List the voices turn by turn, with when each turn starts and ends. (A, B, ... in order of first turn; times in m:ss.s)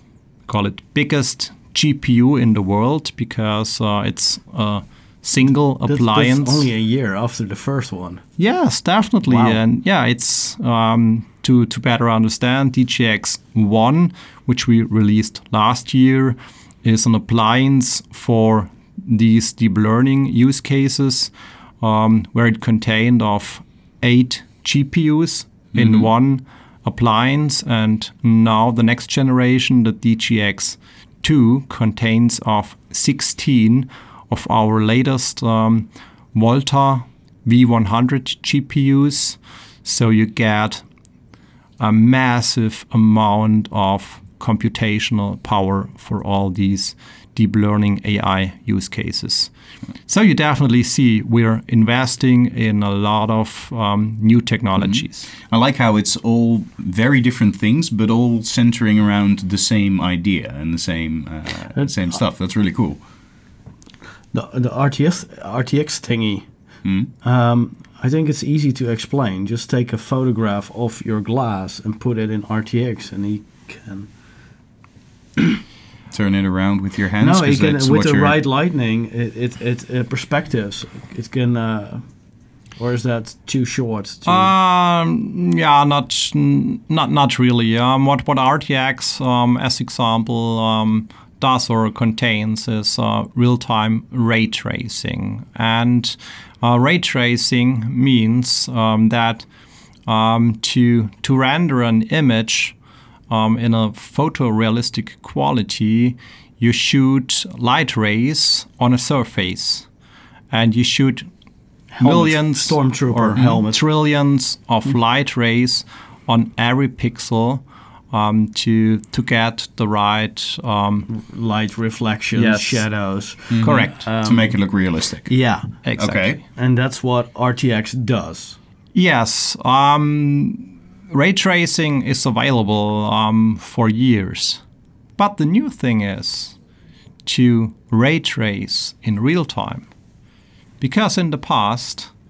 0:00.5-0:06.7 A
0:05.8-0:08.2 B
0:08.4-0:40.8 A
0:09.2-0:09.6 B
0:25.7-0:26.1 C
0:41.8-0:49.5 A
0:50.1-0:55.3 A
0:54.8-1:03.0 C
1:04.3-1:06.5 B
1:06.8-1:07.1 C
1:07.2-1:14.1 B
1:16.1-1:18.4 C
1:17.2-1:22.0 B
1:22.8-1:24.5 B
1:24.2-1:39.5 A
1:40.1-1:42.7 A
1:43.3-1:49.8 A
1:50.5-1:51.3 A
1:51.9-1:53.8 B
1:52.0-2:01.1 A
2:01.1-2:04.5 B
2:02.3-2:02.8 A
2:03.5-2:05.3 C
2:03.5-2:04.1 A
2:05.2-2:05.8 B
2:05.8-2:06.4 A
2:06.0-2:06.4 C
2:06.5-2:08.6 B
2:08.9-2:14.6 A
2:15.2-2:16.6 A
2:17.2-2:19.9 A
2:20.8-2:22.1 A